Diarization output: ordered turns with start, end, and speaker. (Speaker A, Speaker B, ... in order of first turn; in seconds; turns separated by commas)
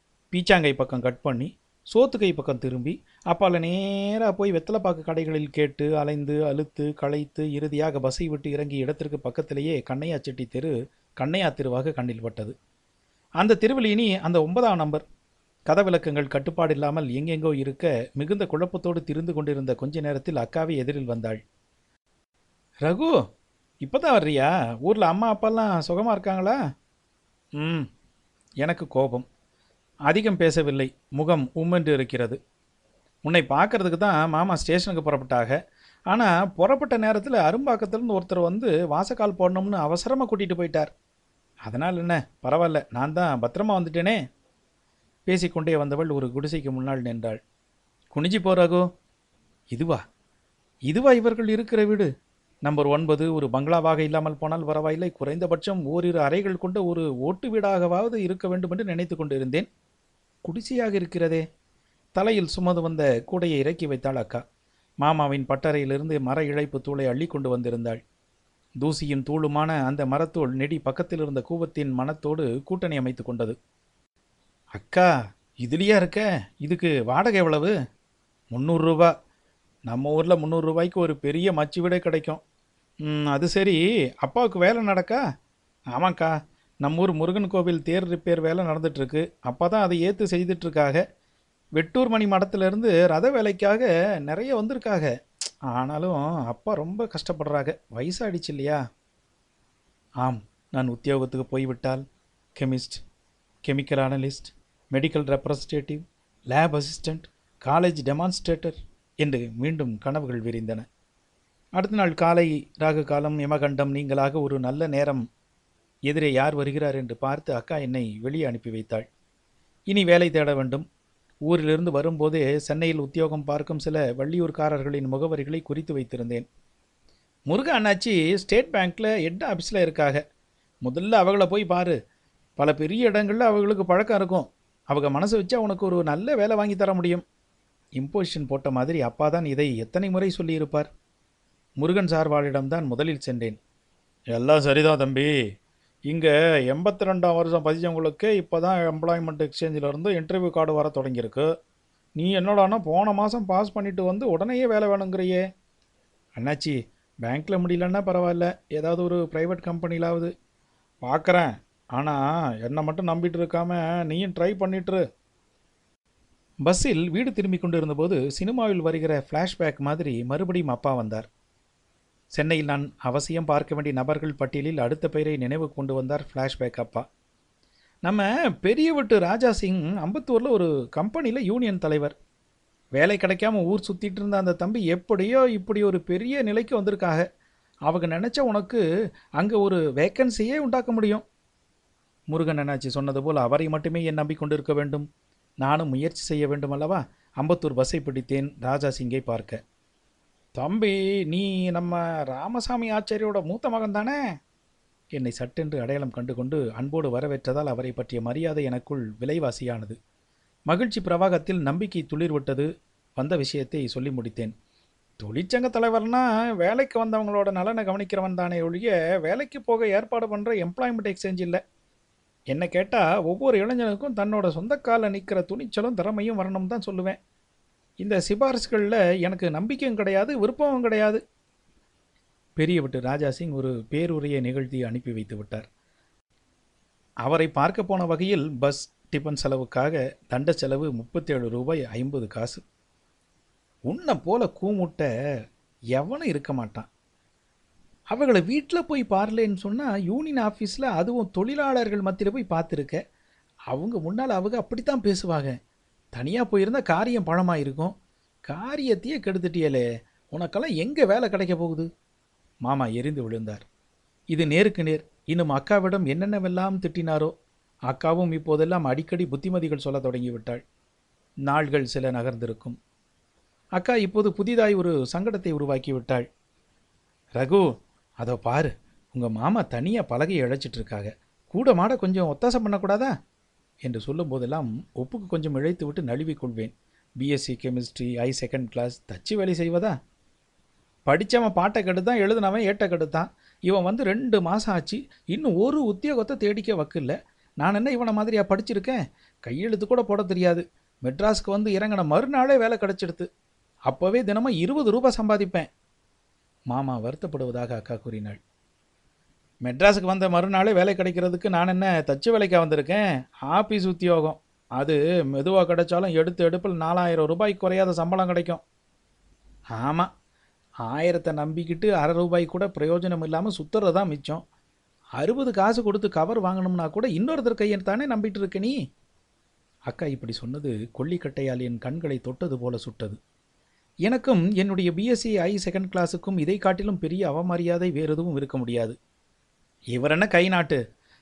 Speaker A: 0.3-12.5, Speaker A: 13.4-15.0, Speaker A: 15.7-21.4, Speaker A: 22.9-23.1, Speaker A: 23.8-26.6, Speaker A: 27.6-27.9, Speaker A: 28.6-29.2, Speaker A: 30.1-32.4, Speaker A: 33.2-35.5, Speaker A: 36.1-40.9, Speaker A: 41.6-44.2, Speaker A: 45.3-47.4, Speaker A: 48.1-48.9, Speaker A: 49.7-50.0, Speaker A: 50.9-52.1, Speaker A: 52.6-59.7, Speaker A: 60.4-61.4, Speaker A: 62.1-64.4, Speaker A: 65.0-68.0, Speaker A: 68.8-73.5, Speaker A: 74.8-75.1, Speaker A: 75.6-77.7, Speaker A: 78.5-79.1, Speaker A: 79.9-82.4, Speaker A: 83.0-85.2, Speaker A: 85.9-91.0, Speaker A: 91.8-95.1, Speaker A: 95.7-98.8, Speaker A: 100.2-102.0, Speaker A: 102.5-103.0, Speaker A: 103.6-110.8, Speaker A: 111.8-115.2, Speaker A: 116.1-119.0, Speaker A: 119.9-120.8, Speaker A: 121.5-126.5, Speaker A: 127.5-130.2, Speaker A: 130.8-131.9, Speaker A: 132.6-137.2, Speaker A: 138.0-140.9, Speaker A: 141.8-143.6, Speaker A: 144.3-145.3, Speaker A: 146.1-151.5, Speaker A: 152.2-155.4, Speaker A: 156.4-160.3, Speaker A: 161.0-165.0, Speaker A: 166.6-171.3, Speaker A: 172.3-177.0, Speaker A: 178.0-182.1, Speaker A: 182.9-187.2, Speaker A: 187.9-188.8, Speaker A: 189.4-191.2, Speaker A: 192.3-195.1, Speaker A: 195.6-199.6, Speaker A: 200.6-204.2, Speaker A: 205.1-209.9, Speaker A: 210.7-212.7, Speaker A: 213.2-214.5, Speaker A: 215.2-221.6, Speaker A: 222.5-227.2, Speaker A: 228.0-231.2, Speaker A: 232.6-235.7, Speaker A: 237.2-242.6, Speaker A: 243.9-245.1, Speaker A: 245.9-246.9, Speaker A: 248.1-253.0, Speaker A: 253.7-255.6, Speaker A: 256.1-257.9, Speaker A: 258.5-261.9, Speaker A: 262.6-263.6, Speaker A: 264.3-267.3, Speaker A: 267.9-270.6, Speaker A: 271.4-272.8, Speaker A: 273.8-276.2, Speaker A: 277.4-277.6, Speaker A: 278.2-283.1, Speaker A: 283.8-289.9, Speaker A: 291.1-303.3, Speaker A: 303.9-305.7, Speaker A: 306.7-308.4, Speaker A: 309.6-318.6, Speaker A: 319.7-320.1, Speaker A: 320.9-324.4, Speaker A: 325.2-328.8, Speaker A: 329.9-333.2, Speaker A: 334.1-338.9, Speaker A: 339.9-340.8